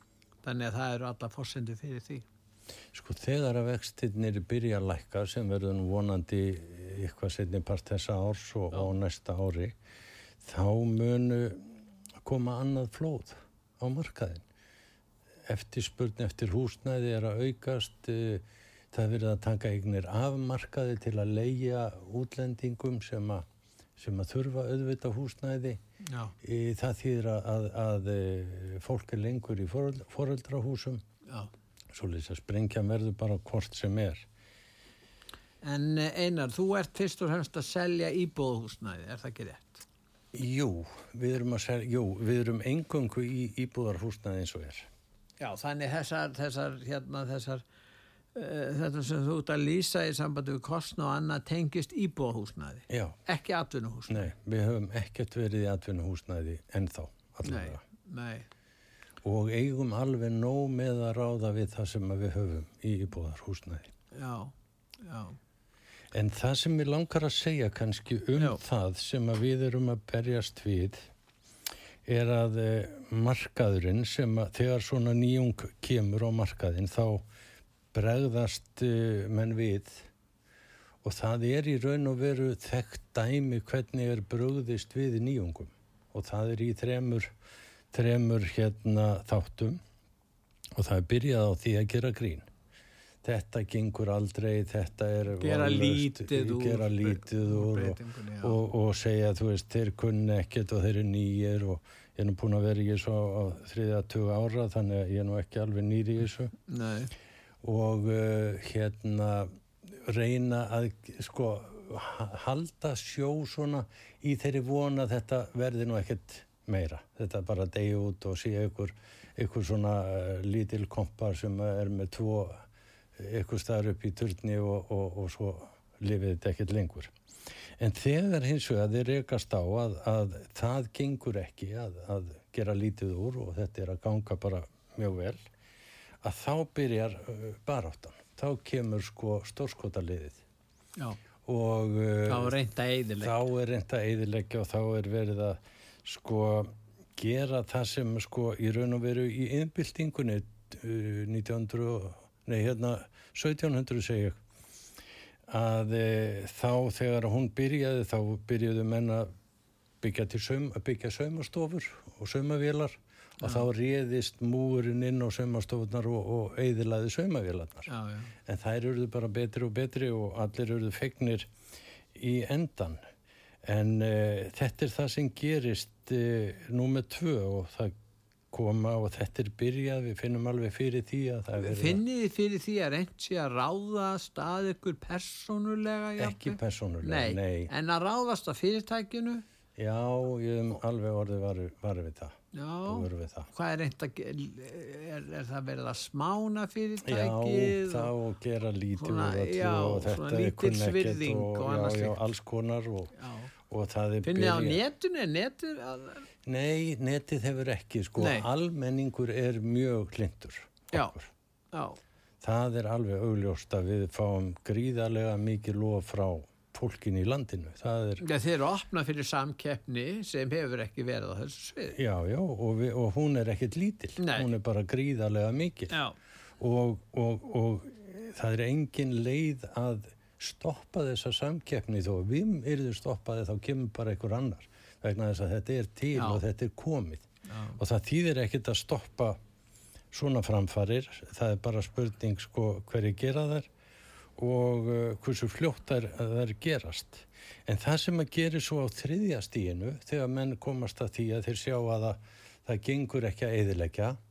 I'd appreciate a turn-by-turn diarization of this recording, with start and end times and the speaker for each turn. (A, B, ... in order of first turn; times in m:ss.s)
0:00.4-0:02.2 A
0:02.9-0:09.7 B
0:10.4-0:14.4 B
0:15.5-0:23.4 B
0:24.0-0:25.8 B
0:26.0-0:26.3 A
0:26.4-0:31.0 B
0:31.9-0:34.3 B
0:35.6-0:39.8 A
0:40.3-0:44.9 B
0:45.4-0:47.6 A
0:48.3-0:54.3 A
0:52.9-0:53.2 B
0:54.1-0:57.8 B
0:57.4-0:58.5 A
0:59.2-1:03.9 B
1:04.1-1:05.4 A
1:06.1-1:11.0 B
1:12.0-1:17.3 B
1:17.9-1:20.1 B
1:21.0-1:27.3 B
1:27.9-1:29.8 B
1:30.7-1:32.5 B
1:33.2-1:46.5 B
1:35.4-1:38.6 A
1:46.7-1:47.1 A
1:47.6-2:02.6 B
2:03.2-2:07.1 B
2:07.8-2:15.4 B
2:16.2-2:20.4 B
2:21.4-2:22.6 B
2:22.3-2:23.4 A
2:23.2-2:34.4 B
2:35.5-2:39.3 B
2:40.0-2:47.9 B
2:43.4-2:43.7 A
2:47.9-2:48.3 A
2:48.4-2:51.5 B
2:52.1-2:53.0 B
2:53.6-2:57.9 B
2:58.5-3:02.0 B
3:01.6-3:09.4 A
3:06.2-3:07.7 B
3:09.8-3:13.5 B
3:12.5-3:18.1 A
3:17.0-3:23.1 B
3:19.0-3:22.2 A
3:23.2-3:23.5 A
3:23.7-3:24.8 B
3:24.2-3:26.3 A
3:26.4-3:31.3 B
3:28.2-3:28.4 A
3:31.7-3:32.0 A
3:32.4-3:38.2 B
3:38.2-3:42.0 A
3:41.9-3:45.9 B
3:44.2-3:44.5 A
3:46.6-3:59.4 B
3:56.1-3:56.4 A
3:57.4-3:57.8 A
4:00.1-4:03.7 B
4:04.4-4:14.2 B